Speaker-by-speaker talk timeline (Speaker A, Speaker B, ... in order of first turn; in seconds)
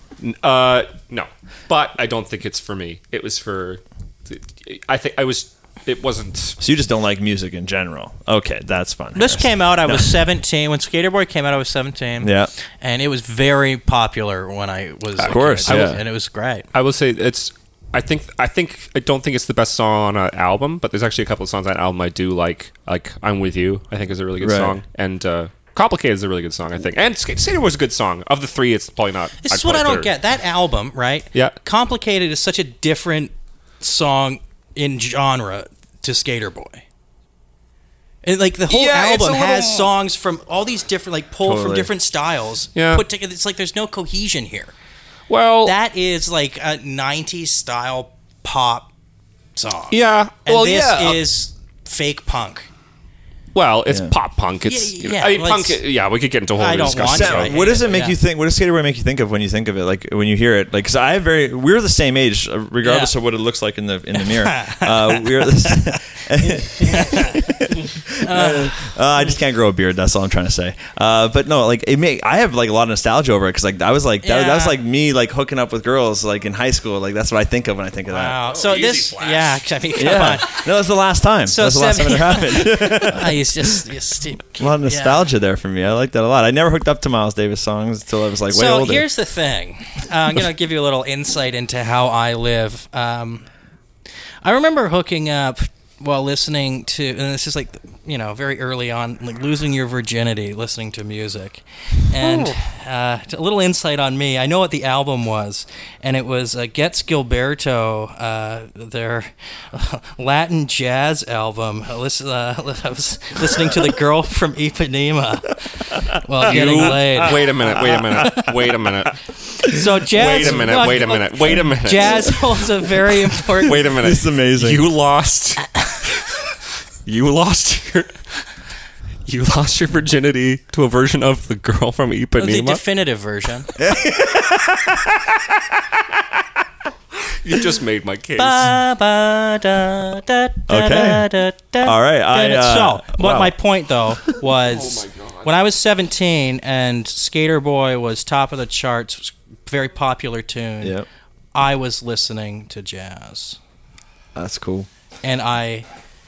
Speaker A: 0.2-6.6, 15.2-16.0, 16.7-30.1, 38.7-39.9, 42.7-43.0, 45.3-45.7, 49.9-51.2, 53.5-57.5, 78.4-79.6, 116.4-119.1, 120.1-122.4, 123.6-126.5, 127.0-128.4, 129.2-132.8, 137.2-138.7, 144.6-145.5
Speaker B: 6.6-10.1, 12.2-12.5, 15.2-16.0, 24.4-24.8, 41.4-41.9, 53.9-54.1, 56.9-78.4, 80.0-83.8, 84.6-89.1, 116.5-118.4, 123.7-124.8, 133.8-136.2, 140.7-141.3, 141.8-143.5, 154.3-154.9
Speaker C: 9.1-16.7, 29.4-36.8, 38.2-44.7, 45.6-48.9, 49.5-52.7, 54.6-55.8, 56.6-58.2, 62.8-63.1, 64.2-65.7, 66.6-69.0, 74.2-74.8, 78.1-80.7, 81.5-85.2, 88.5-93.5, 94.4-118.5, 119.6-123.8, 132.4-133.7, 138.4-150.9, 151.5-153.6, 155.2-155.8